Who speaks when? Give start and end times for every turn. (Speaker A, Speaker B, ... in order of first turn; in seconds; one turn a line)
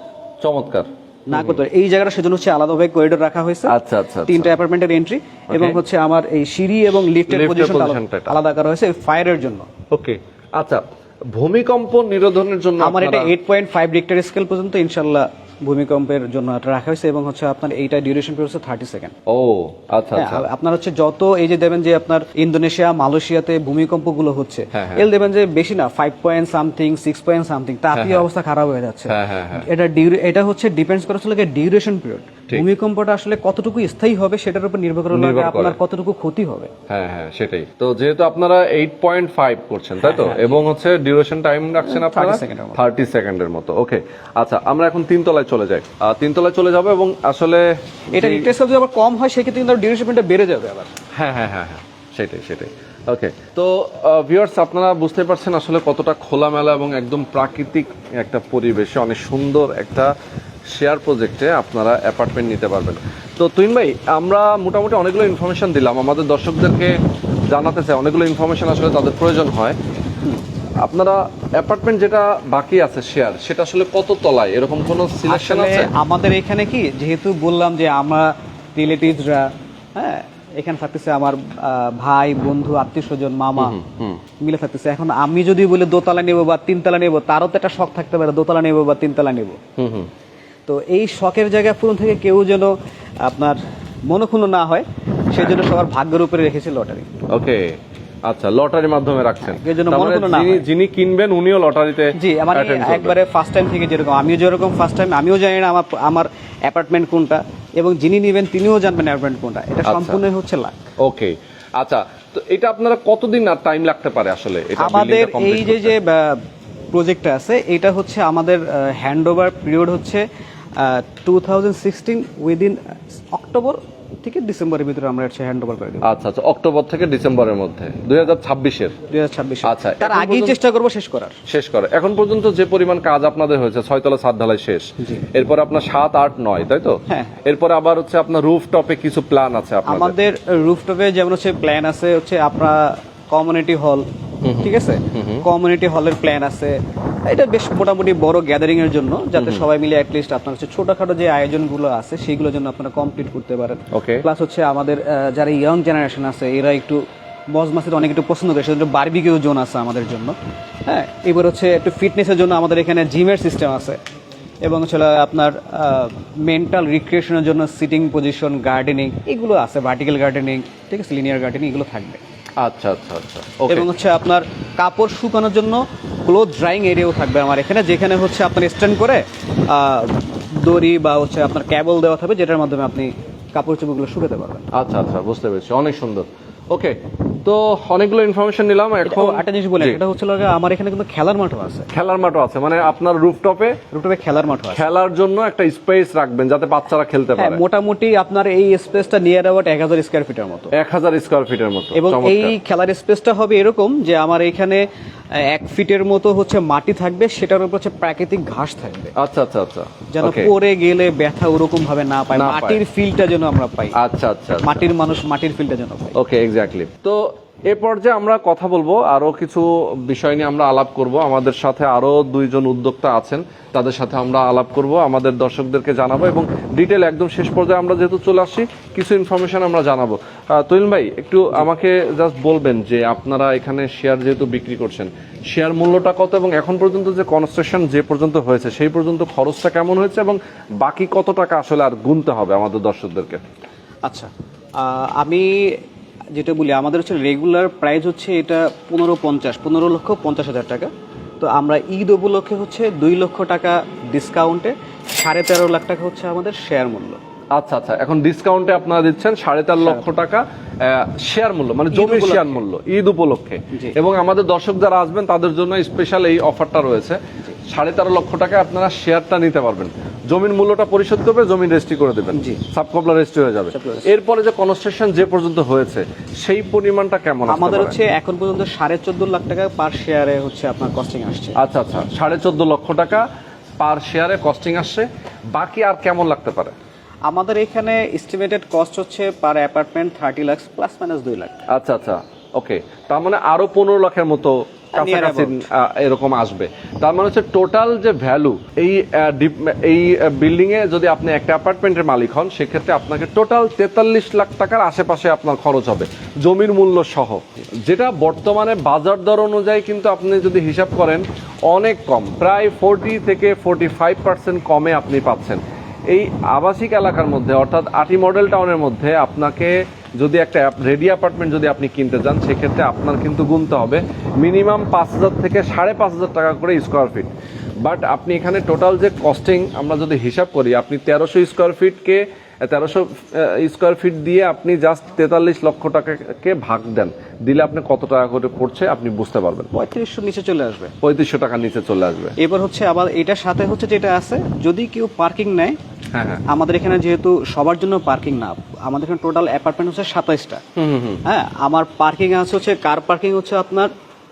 Speaker A: 0.4-1.6
Speaker B: 1.3-3.7
Speaker A: 3.7-4.5
Speaker B: 4.3-9.7
Speaker A: 5.5-5.8
Speaker A: 7.3-8.3
Speaker A: 9.9-13.3
Speaker B: 12.8-19.1
Speaker A: 19.3-20.4
Speaker B: 20.1-36.7
Speaker A: 24.7-25.1
Speaker A: 27.9-28.3
Speaker A: 29.1-29.6
Speaker A: 35.1-35.8
Speaker A: 36.9-48.5
Speaker B: 40.0-40.6
Speaker B: 41.8-42.8
Speaker B: 48.1-51.0
Speaker A: 51.1-60.1
Speaker A: 60.7-67.0
Speaker A: 67.5-69.8
Speaker A: 70.8-75.9
Speaker B: 75.2-83.8
Speaker A: 83.6-84.2
Speaker B: 84.4-89.6
Speaker A: 89.8-90.1
Speaker B: 90.7-92.7
Speaker B: 93.2-93.6
Speaker B: 94.1-97.1
Speaker A: 97.3-103.2
Speaker B: 99.4-100.7
Speaker B: 102.2-110.8
Speaker A: 109.9-110.2
Speaker A: 111.0-115.9
Speaker B: 114.8-116.4
Speaker B: 116.9-120.2
Speaker B: 120.8-126.1
Speaker A: 126.0-129.0
Speaker B: 129.1-131.3
Speaker A: 129.6-130.6
Speaker A: 131.5-140.2
Speaker B: 137.1-137.4
Speaker B: 139.9-144.1
Speaker A: 144.4-145.4
Speaker B: 144.6-157.0
Speaker A: 149.4-149.7
Speaker A: 153.9-154.3
Speaker B: 157.5-164.0
Speaker B: 164.6-172.2
Speaker A: 172.6-173.9
Speaker B: 173.7-184.7
Speaker A: 184.7-190.0
Speaker B: 189.1-191.9
Speaker A: 191.9-193.8
Speaker B: 193.9-194.9
Speaker A: 194.7-197.6
Speaker B: 197.4-200.7
Speaker A: 200.7-202.6
Speaker B: 201.9-204.8
Speaker B: 205.4-209.2
Speaker A: 209.2-210.5
Speaker B: 210.1-214.0
Speaker A: 212.3-212.8
Speaker A: 214.0-214.9
Speaker B: 214.6-216.1
Speaker A: 216.2-243.4
Speaker B: 244.1-245.7
Speaker B: 246.3-257.2
Speaker A: 257.5-278.0
Speaker B: 259.8-260.1
Speaker B: 261.9-262.6
Speaker B: 272.4-272.6
Speaker B: 273.7-274.1
Speaker B: 277.5-281.6
Speaker A: 281.6-283.3
Speaker A: 283.8-286.7
Speaker B: 287.3-291.6
Speaker A: 291.7-327.3
Speaker B: 295.0-295.6
Speaker A: 327.8-339.7
Speaker B: 339.7-340.9
Speaker A: 341.0-342.4
Speaker B: 342.4-345.8
Speaker A: 346.1-346.4
Speaker B: 346.5-350.6
Speaker A: 350.8-351.2
Speaker B: 351.2-353.9